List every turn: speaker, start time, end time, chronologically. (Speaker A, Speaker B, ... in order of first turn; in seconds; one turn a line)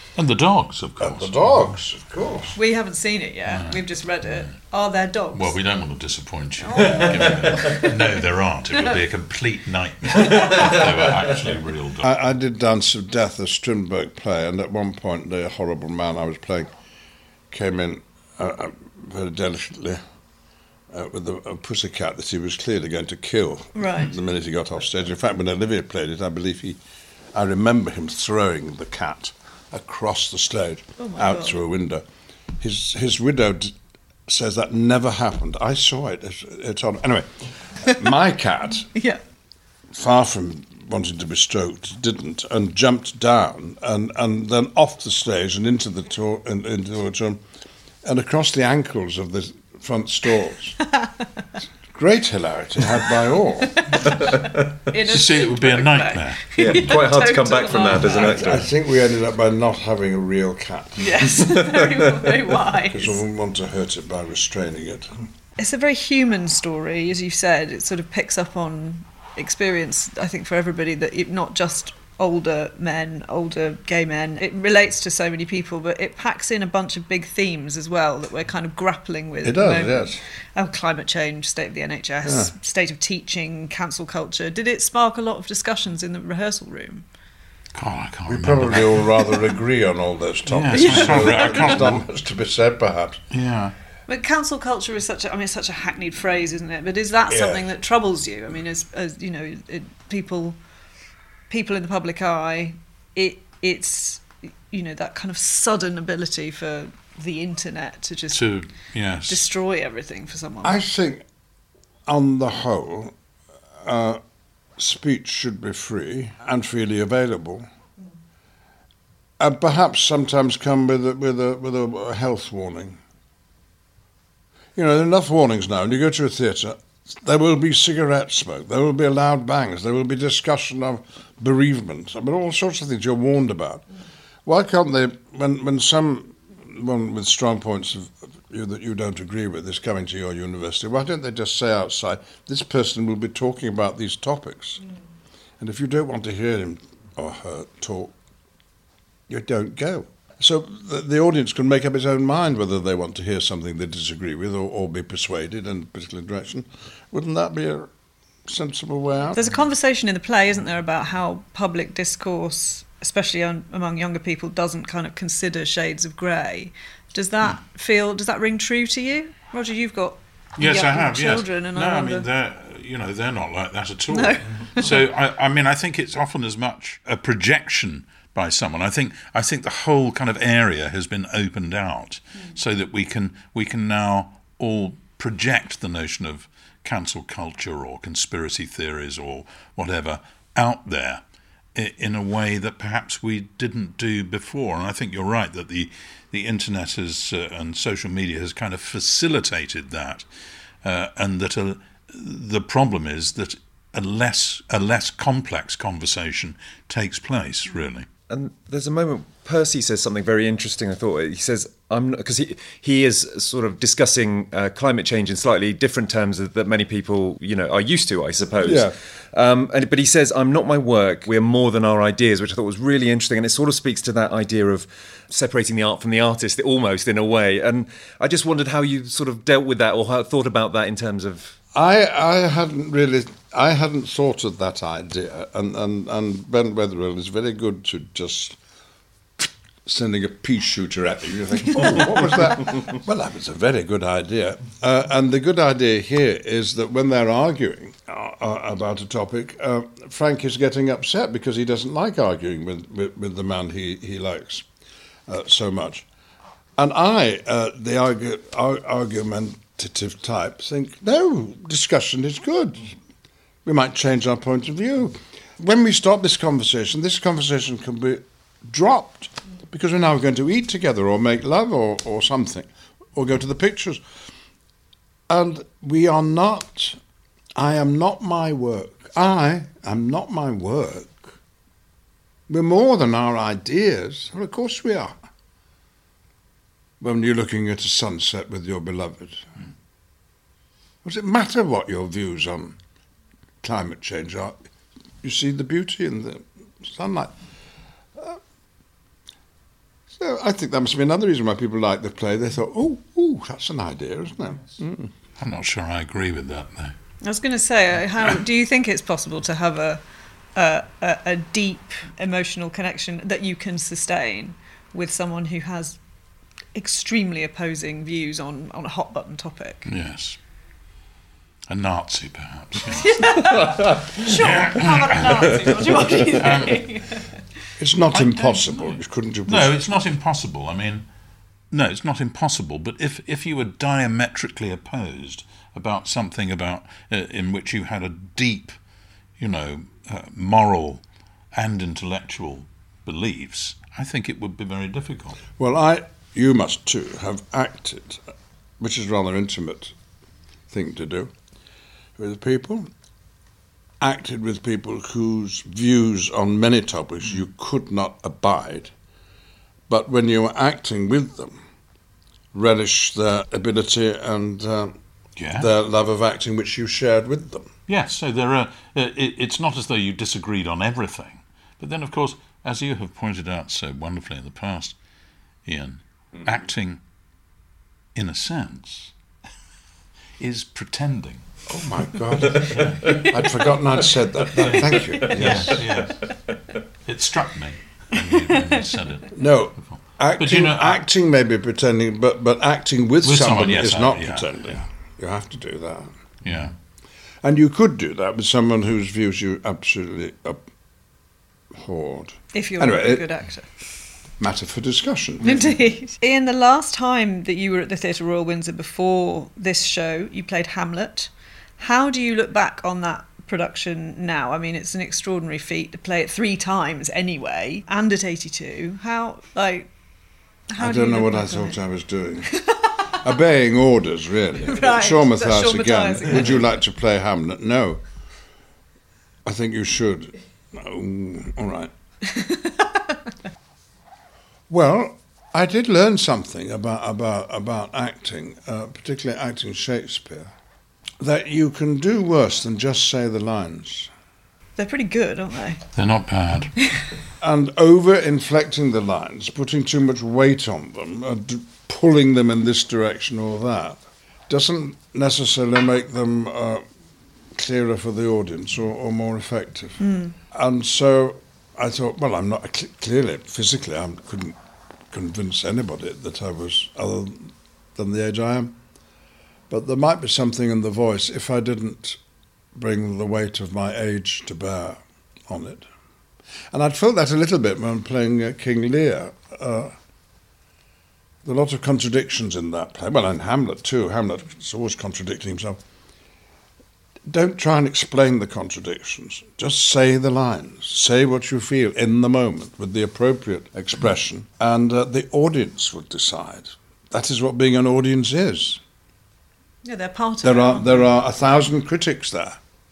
Speaker A: 0.2-1.6
Speaker B: 1.0-2.6
Speaker C: 2.5-5.5
Speaker A: 3.5-4.5
Speaker A: 5.3-12.1
Speaker C: 6.6-7.9
Speaker B: 12.0-16.7
Speaker B: 17.5-20.0
Speaker B: 20.9-26.8
Speaker C: 23.8-24.1
Speaker B: 27.3-32.0
Speaker C: 31.0-31.6
Speaker B: 32.6-33.8
Speaker B: 34.3-38.9
Speaker B: 39.9-47.4
Speaker B: 48.0-50.8
Speaker C: 50.8-51.3
Speaker B: 51.9-54.0
Speaker C: 53.7-58.5
Speaker A: 55.1-57.0
Speaker D: 56.5-58.7
Speaker B: 58.1-61.4
Speaker C: 61.0-63.2
Speaker B: 62.9-65.2
Speaker C: 65.6-87.0
Speaker B: 79.4-80.2
Speaker B: 82.2-82.5
Speaker A: 87.8-89.1
Speaker B: 88.3-93.2
Speaker A: 90.5-92.1
Speaker C: 90.7-91.8
Speaker A: 93.3-93.8
Speaker C: 94.1-100.6
Speaker B: 97.3-97.7
Speaker C: 101.5-108.5
Speaker A: 108.3-109.5
Speaker C: 109.3-110.8
Speaker B: 110.6-111.2
Speaker B: 112.1-113.2
Speaker B: 113.8-114.2
Speaker B: 114.8-117.7
Speaker B: 119.4-123.0
Speaker B: 124.8-133.8
Speaker B: 134.4-144.8
Speaker B: 145.6-148.2
Speaker B: 149.3-157.9
Speaker B: 158.5-159.4
Speaker C: 159.3-172.3
Speaker A: 170.6-191.2
Speaker C: 174.1-175.0
Speaker A: 191.8-200.3
Speaker A: 200.8-208.1
Speaker D: 208.3-231.6
Speaker B: 218.6-219.0
Speaker B: 231.7-238.6
Speaker B: 239.4-254.7
Speaker B: 255.3-256.1
Speaker B: 256.8-263.0
Speaker B: 263.6-274.0
Speaker B: 275.3-277.0
Speaker B: 277.6-281.4
Speaker B: 282.5-285.2
Speaker B: 287.0-289.5
Speaker B: 291.0-292.8
Speaker B: 293.6-294.6
Speaker B: 295.2-297.3
Speaker B: 300.1-305.1
Speaker A: 305.4-306.9
Speaker C: 307.2-310.0
Speaker C: 310.6-316.0
Speaker C: 316.7-319.9
Speaker A: 319.9-320.4
Speaker A: 321.7-323.6
Speaker C: 322.8-327.3
Speaker D: 323.5-324.2
Speaker A: 324.3-326.9
Speaker B: 327.8-329.7
Speaker A: 328.1-331.1
Speaker A: 331.7-338.8
Speaker A: 339.4-341.0
Speaker A: 341.5-345.4
Speaker B: 345.6-348.2
Speaker B: 348.8-349.9
Speaker B: 350.7-351.3
Speaker B: 352.2-352.9
Speaker B: 354.0-358.9
Speaker B: 359.9-361.6
Speaker B: 362.5-365.0
Speaker A: 365.4-365.7
Speaker B: 365.6-367.7
Speaker A: 367.9-375.0
Speaker A: 375.6-377.0
Speaker A: 378.1-379.1
Speaker A: 380.4-381.4
Speaker B: 381.7-385.8
Speaker A: 382.7-383.2
Speaker D: 385.2-386.1
Speaker A: 385.3-386.4
Speaker A: 387.1-391.0
Speaker C: 388.4-388.8
Speaker B: 389.3-396.1
Speaker A: 393.2-394.7
Speaker A: 396.4-396.7
Speaker B: 397.4-400.6
Speaker B: 401.7-403.3
Speaker C: 402.5-403.7
Speaker B: 404.4-405.7
Speaker C: 405.4-419.9
Speaker C: 420.7-421.8
Speaker B: 420.8-428.0
Speaker C: 422.6-423.2
Speaker C: 424.6-426.6
Speaker B: 429.4-431.9
Speaker C: 432.3-433.3
Speaker B: 434.7-440.5
Speaker B: 441.2-444.1
Speaker C: 444.8-445.9
Speaker A: 446.0-446.7
Speaker B: 447.4-456.8
Speaker B: 457.5-460.0
Speaker C: 460.0-460.4
Speaker B: 460.5-464.6
Speaker B: 465.1-468.8
Speaker B: 469.7-472.2
Speaker B: 472.7-475.9
Speaker B: 476.7-479.9
Speaker B: 481.4-485.8
Speaker B: 487.3-498.8
Speaker C: 499.8-501.1
Speaker B: 500.4-502.6